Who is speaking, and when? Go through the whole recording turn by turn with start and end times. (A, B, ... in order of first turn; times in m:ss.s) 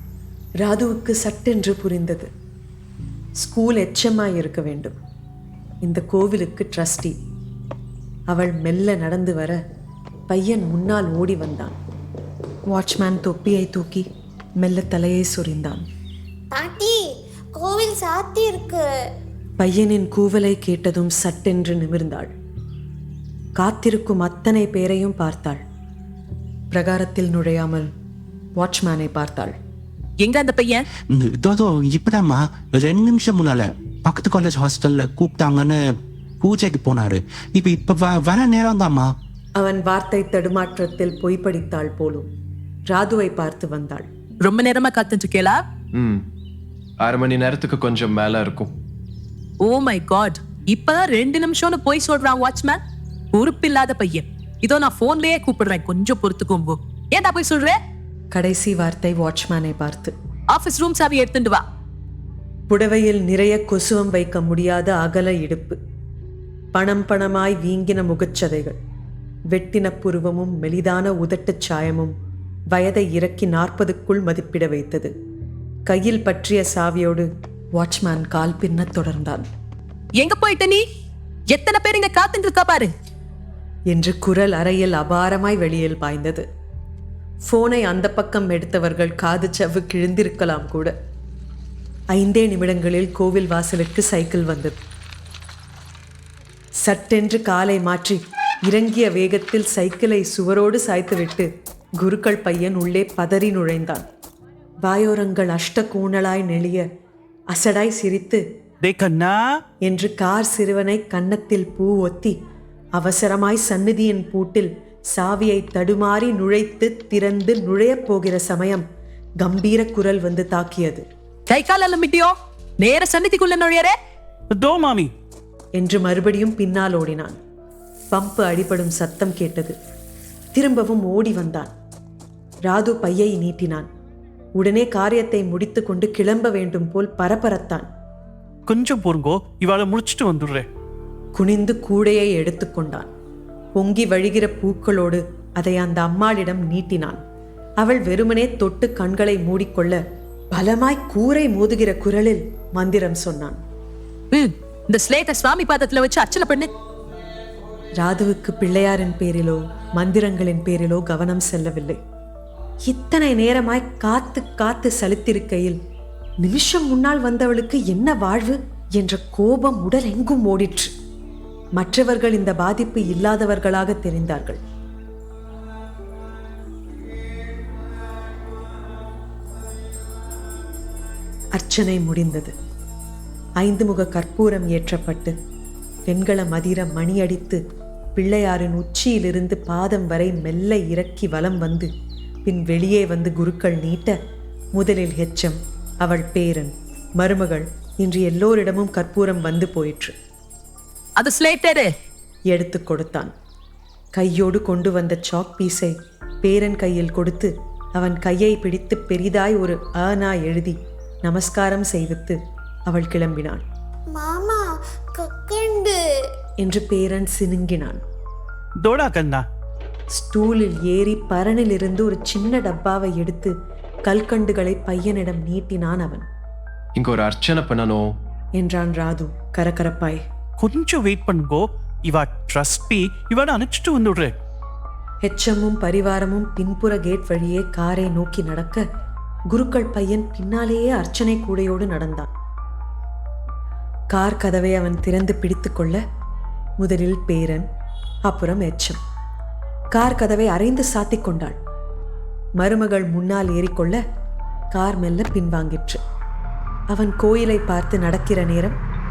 0:00.6-0:02.3 A
0:03.4-0:04.9 A
0:05.8-0:07.2 A
0:08.3-0:09.6 A
0:10.3-0:11.8 A
0:12.7-0:14.1 A
0:14.6-0:15.8 A
0:16.5-0:18.9 B
0:19.6-0:22.3 A
0:23.6-0:25.6 A
0:26.7-0:27.9 A
0:28.6-0:29.6 A
0:30.2-0:30.8 C
0:31.1-0:35.8 D
0:36.4-0:39.1 D
0:39.6-0:42.3 A
0:42.9-0:44.1 A
0:44.4-0:45.6 C
0:46.0-0:46.2 E
0:47.0-0:48.7 E
0:49.6-0:52.8 C
0:53.3-0:57.8 C
0:58.3-1:00.1 A
1:00.5-1:01.6 C
1:02.7-1:05.8 A
1:06.7-1:08.8 A
1:09.5-1:12.1 A
1:12.7-1:15.1 A
1:15.8-1:19.5 A
1:20.2-1:20.8 C
1:21.5-1:22.9 C
1:23.9-1:26.4 A
1:27.5-1:30.9 A
1:32.1-1:34.8 A
1:36.8-1:41.5 A
1:42.0-1:44.1 A
1:44.8-1:46.8 A
1:47.5-1:48.4 A
1:48.8-1:49.6 F
1:49.8-1:52.4 A
1:53.0-1:58.8 A
1:59.4-2:01.0 A
2:01.5-2:03.9 C
2:04.5-2:05.1 F
2:05.8-2:07.4 A
2:08.1-2:09.7 A
2:10.5-2:11.7 A
2:12.7-2:13.9 A
2:14.6-2:17.9 A
2:18.7-2:20.6 F
2:21.3-2:23.1 A
2:23.8-2:27.2 A
2:27.8-2:30.0 A
2:30.5-2:33.6 A
2:34.3-2:36.7 C
2:38.0-2:42.0 A
2:42.9-2:45.8 A
2:46.4-2:50.9 A
2:51.8-2:54.6 A
3:01.6-3:02.5 A
3:03.6-3:05.4 A
3:06.1-3:07.6 A
3:08.2-3:11.9 A
3:12.4-3:14.2 A
3:14.7-3:20.1 A
3:21.2-3:21.9 C
3:22.5-3:23.3 A
3:24.2-3:33.6 A
3:34.1-3:36.0 B
3:36.6-3:38.0 A
3:38.8-3:39.5 F
3:40.1-3:43.5 A
3:44.0-3:46.2 A
3:47.0-3:48.1 E
3:48.6-3:50.2 A
3:50.6-3:54.3 F
3:55.2-3:58.8 A
3:59.5-4:02.3 A
4:04.1-4:06.0 A
4:06.8-4:07.7 A
4:08.3-4:09.0 A
4:09.9-4:11.6 A
4:12.6-4:14.0 A
4:14.7-4:16.0 A
4:16.9-4:18.8 A